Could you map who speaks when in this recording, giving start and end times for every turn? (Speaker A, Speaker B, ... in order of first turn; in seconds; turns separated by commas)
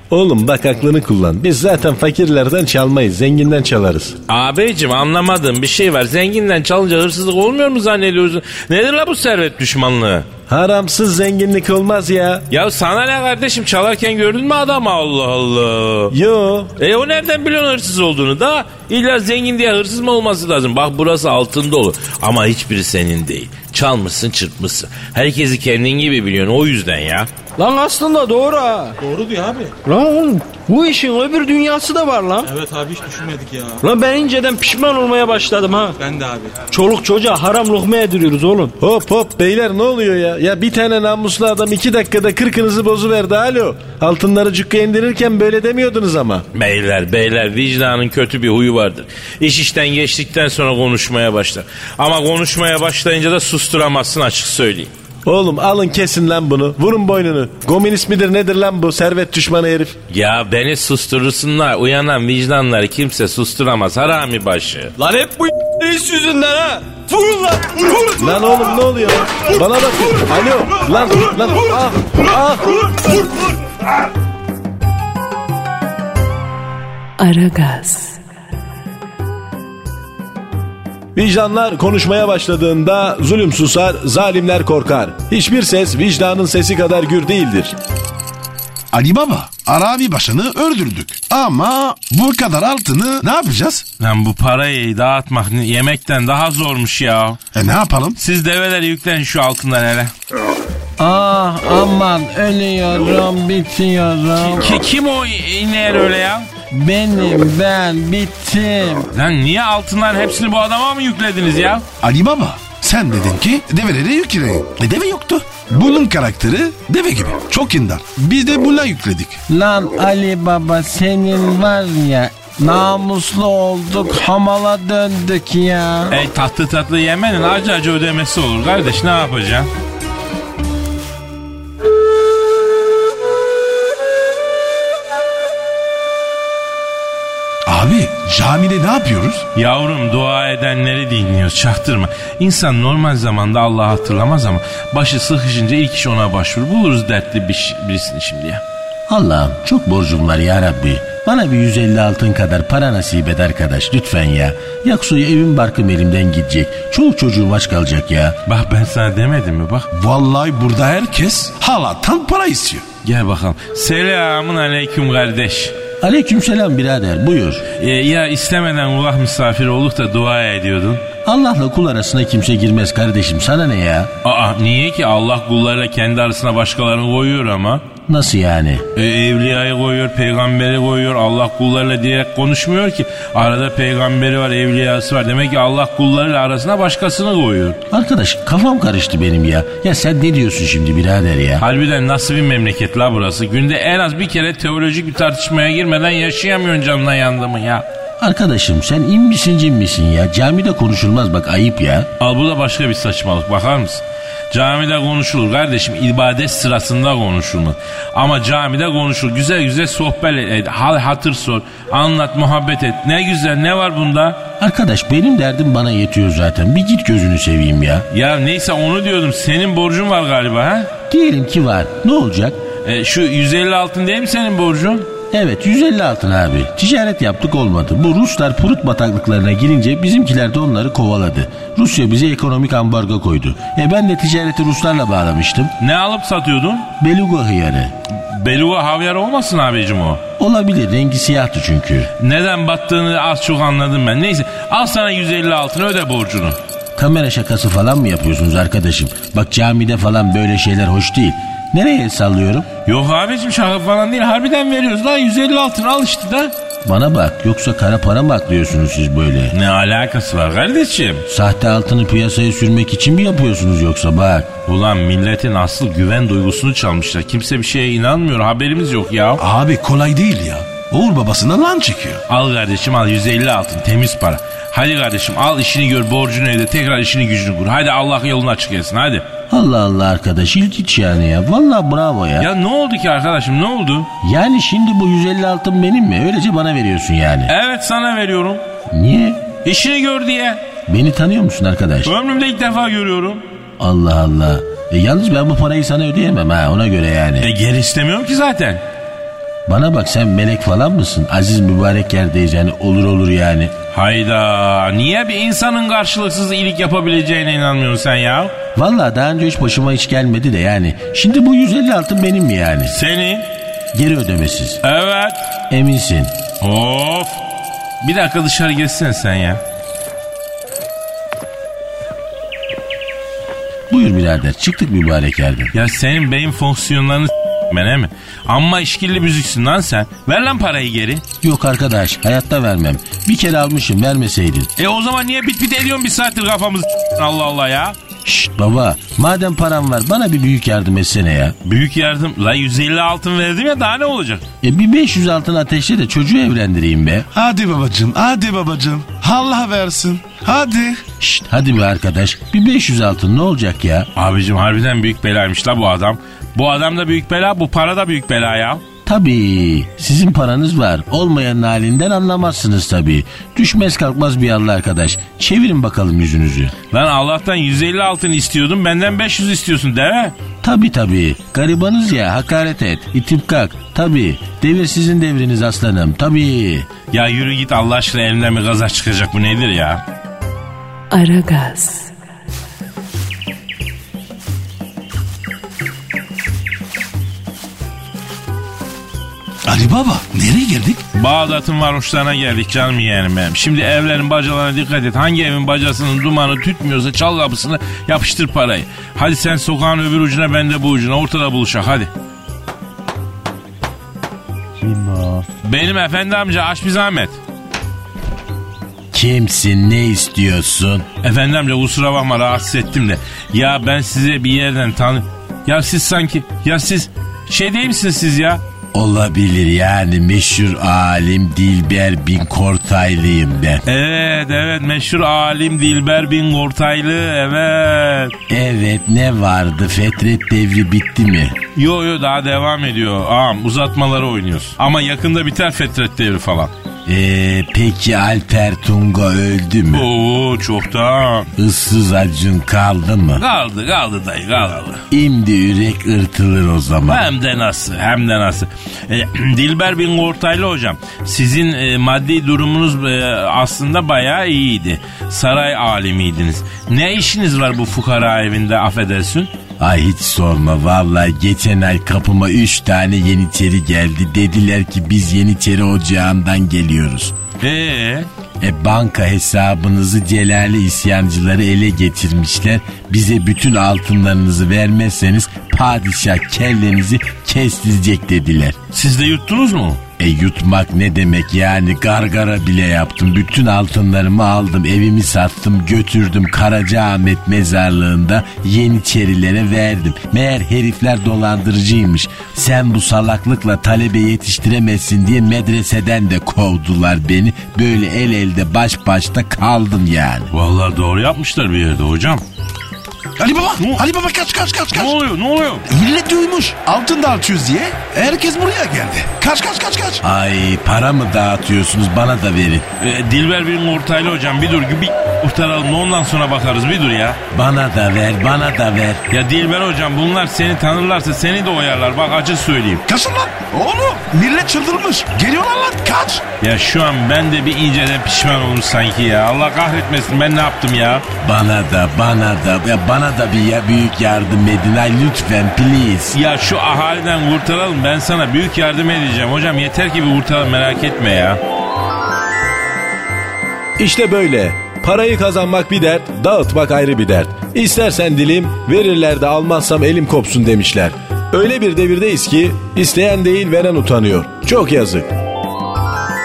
Speaker A: 0.1-4.2, Speaker B: 4.3-10.3, Speaker A: 10.5-12.4, Speaker B: 12.5-16.1, Speaker A: 16.1-16.7, Speaker B: 16.8-27.3, Speaker C: 27.6-29.0, Speaker D: 29.0-29.8, Speaker C: 29.8-32.5, Speaker D: 32.5-33.8, Speaker C: 33.8-36.0, Speaker D: 36.0-36.6, Speaker C: 36.6-38.7, Speaker A: 38.8-46.4, Speaker B: 46.5-54.9, Speaker A: 55.3-60.0, Speaker B: 60.1-64.9, Speaker C: 65.0-68.2, Speaker A: 68.1-73.2, Speaker E: 77.2-78.2, Speaker A: 81.2-87.8, Speaker F: 88.9-93.8, Speaker B: 94.0-97.4, Speaker F: 97.5-98.2, Speaker B: 98.2-100.1, Speaker G: 101.0-104.7, Speaker B: 104.4-106.5, Speaker G: 106.7-109.1, Speaker B: 109.1-111.8, Speaker F: 112.0-119.4, Speaker G: 119.5-126.2, Speaker B: 126.1-129.7, Speaker F: 137.7-139.4, Speaker B: 139.6-148.6, Speaker G: 149.1-158.4, Speaker B: 158.5-159.9, Speaker F: 159.9-162.8, Speaker B: 163.0-165.7, Speaker G: 166.0-167.7, Speaker B: 167.8-171.0, Speaker G: 171.2-174.1, Speaker B: 174.2-177.8, Speaker G: 178.1-178.8, Speaker B: 178.9-187.8, Speaker G: 187.9-191.7, Speaker B: 191.6-197.9, Speaker G: 198.2-202.1, Speaker B: 202.2-214.4, Speaker G: 214.6-218.1, Speaker B: 218.1-220.9, Speaker G: 221.1-222.6, Speaker B: 222.8-225.1, Speaker G: 225.3-235.7, Speaker B: 235.8-236.9, Speaker G: 237.0-237.9, Speaker B: 238.1-240.2, Speaker G: 240.4-242.1, Speaker B: 242.2-246.6, Speaker G: 247.0-252.7, Speaker B: 252.8-256.5, Speaker G: 256.8-259.6, Speaker B: 259.5-261.3, Speaker G: 261.3-264.5, Speaker B: 264.7-269.4, Speaker F: 269.4-272.2, Speaker B: 272.3-279.2, Speaker G: 279.5-282.5, Speaker B: 282.4-284.1, Speaker G: 284.2-287.5, Speaker B: 287.5-288.6, Speaker G: 288.9-289.4, Speaker B: 289.6-290.6, Speaker G: 290.9-292.1, Speaker B: 292.1-293.4, Speaker G: 293.8-297.5, Speaker B: 297.4-298.8, Speaker G: 299.7-303.7, Speaker B: 303.9-308.5, Speaker G: 308.8-313.0, Speaker B: 312.9-313.5, Speaker G: 313.9-314.8, Speaker B: 314.8-315.5, Speaker G: 315.7-316.3, Speaker B: 316.6-317.4, Speaker B: 318.0-319.6, Speaker G: 323.9-325.7, Speaker B: 325.7-331.2, Speaker G: 331.4-334.7, Speaker B: 334.8-338.0, Speaker G: 338.2-341.6, Speaker B: 341.6-344.4, Speaker G: 344.6-347.3, Speaker F: 347.3-351.1, Speaker G: 351.2-354.1, Speaker B: 354.1-358.8, Speaker G: 359.1-366.7, Speaker B: 366.9-370.4, Speaker G: 370.6-376.9, Speaker B: 377.1-380.0, Speaker E: 381.1-382.1, Speaker F: 389.7-391.0, Speaker B: 391.1-402.1, Speaker G: 404.8-405.5, Speaker B: 405.6-407.4, Speaker G: 409.1-411.1, Speaker B: 411.2-418.6, Speaker G: 418.9-423.8, Speaker B: 423.9-428.3, Speaker G: 428.5-431.6, Speaker B: 431.8-436.7, Speaker G: 437.1-440.1, Speaker B: 439.9-441.5, Speaker G: 441.6-443.4, Speaker B: 443.4-445.0, Speaker G: 445.1-447.2, Speaker B: 447.1-459.5, Speaker G: 459.8-467.3, Speaker B: 467.6-468.3, Speaker G: 468.6-478.8, Speaker B: 478.9-480.0, Speaker G: 480.2-500.5, Speaker B: 500.5-502.4, Speaker F: 503.4-505.1, Speaker B: 504.9-505.9, Speaker F: 505.9-510.2, Speaker G: 510.2-512.9, Speaker B: 513.0-517.4, Speaker G: 517.5-519.2, Speaker B: 519.3-523.0, Speaker F: 523.1-526.4, Speaker B: 526.6-531.2, Speaker G: 531.4-536.4, Speaker B: 536.3-541.6, Speaker A: 544.0-555.3